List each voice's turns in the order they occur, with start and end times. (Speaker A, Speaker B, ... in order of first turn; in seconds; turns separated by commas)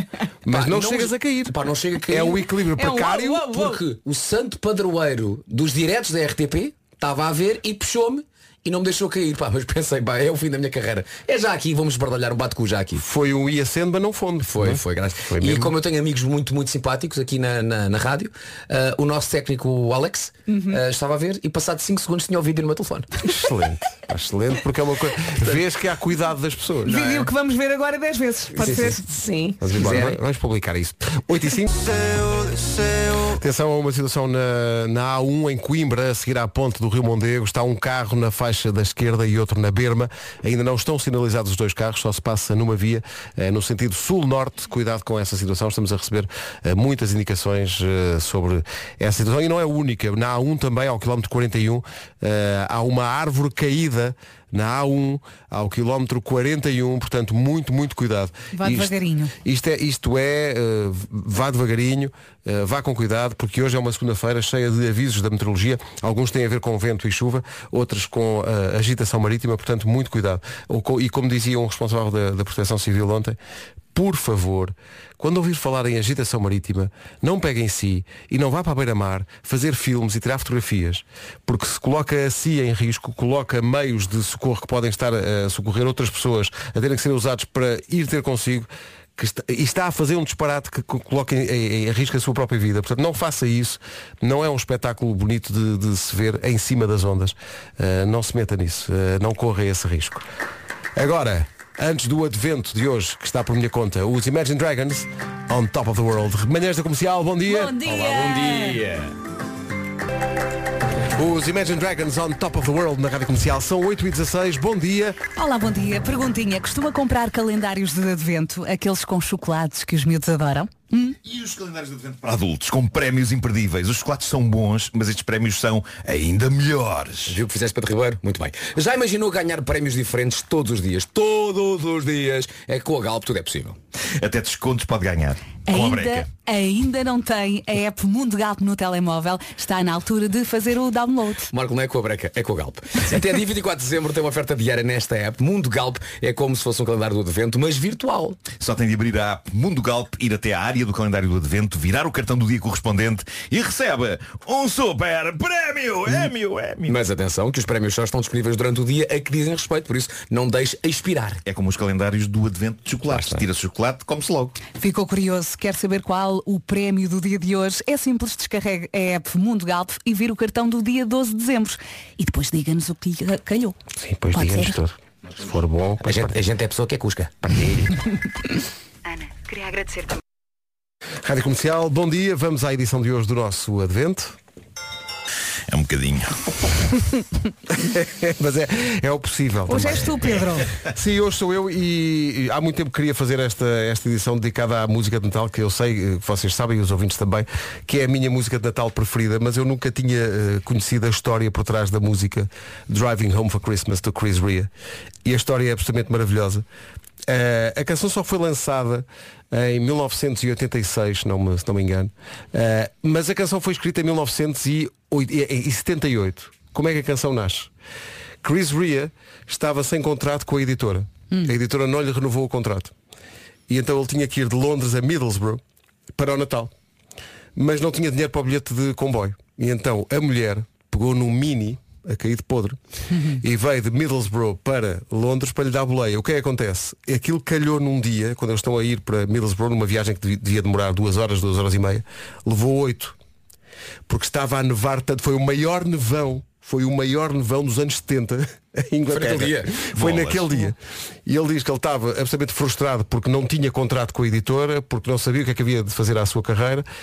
Speaker A: 0.5-3.6, Speaker B: 0.5-2.5, Speaker C: 2.8-3.8, Speaker B: 3.3-13.0, Speaker A: 13.0-15.8, Speaker B: 14.5-23.1, Speaker C: 20.5-20.8, Speaker A: 23.2-27.0, Speaker C: 26.9-29.1, Speaker B: 26.9-27.3, Speaker B: 28.6-30.2, Speaker A: 28.6-28.9, Speaker A: 29.6-73.4, Speaker C: 58.5-59.3, Speaker A: 73.9-100.2, Speaker A: 101.0-107.8, Speaker C: 107.5-108.8, Speaker B: 107.9-108.8, Speaker D: 108.0-109.1, Speaker A: 111.2-115.2, Speaker C: 115.3-121.2, Speaker D: 121.2-127.4, Speaker B: 127.3-133.8, Speaker D: 134.2-136.3, Speaker C: 135.7-141.5, Speaker B: 141.5-148.4, Speaker D: 148.5-157.0, Speaker B: 156.9-161.4, Speaker D: 161.4-164.6, Speaker C: 164.8-173.8, Speaker A: 174.0-176.4, Speaker B: 176.0-177.9, Speaker A: 181.2-184.4, Speaker D: 185.7-186.7, Speaker A: 187.7-190.2, Speaker C: 189.7-190.7, Speaker A: 190.9-204.7, Speaker A: 205.2-206.7, Speaker A: 207.3-217.7, Speaker A: 218.4-222.9, Speaker A: 223.7-225.6, Speaker A: 226.2-226.7, Speaker A: 227.6-232.8, Speaker C: 233.1-233.4, Speaker A: 233.4-243.2, Speaker A: 244.1-256.9, Speaker B: 249.1-249.9, Speaker D: 249.9-250.5